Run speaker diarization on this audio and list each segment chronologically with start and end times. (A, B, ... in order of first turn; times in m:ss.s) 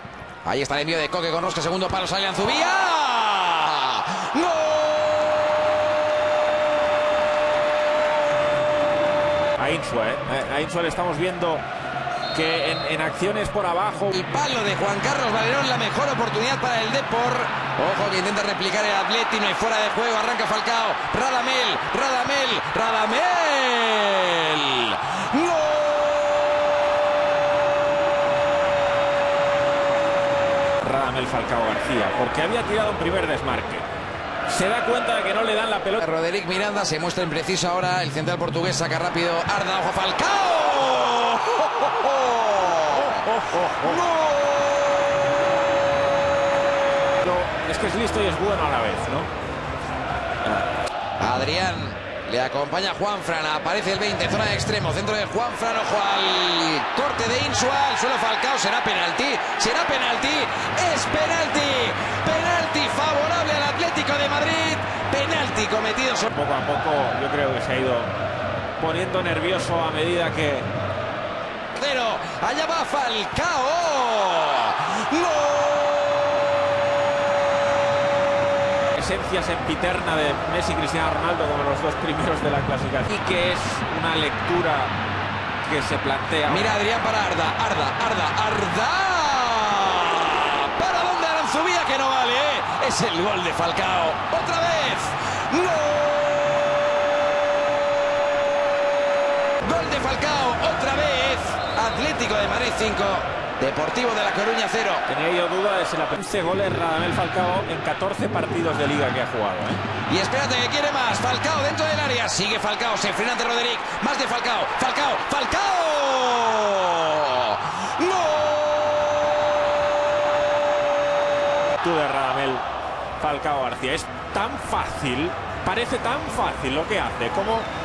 0:00.4-0:05.6 A
0:09.6-0:11.6 B
0:12.3-0:14.1 B
0:14.1-0:26.6 A
0:30.8-0:33.9 B
0:34.5-0:36.0 B
0:36.0-0:45.1 A
0:42.9-0:44.0 B
0:47.2-0:49.3 B
0:51.2-1:06.3 A
1:06.3-1:08.1 B
1:08.8-1:10.7 B
1:11.7-1:16.4 A
1:18.9-1:24.9 B
1:25.6-1:26.8 B
1:26.5-1:36.7 A
1:39.6-1:45.0 A
1:45.1-1:49.8 B
1:50.1-1:59.3 A
2:01.8-2:02.6 B
2:03.2-2:07.7 B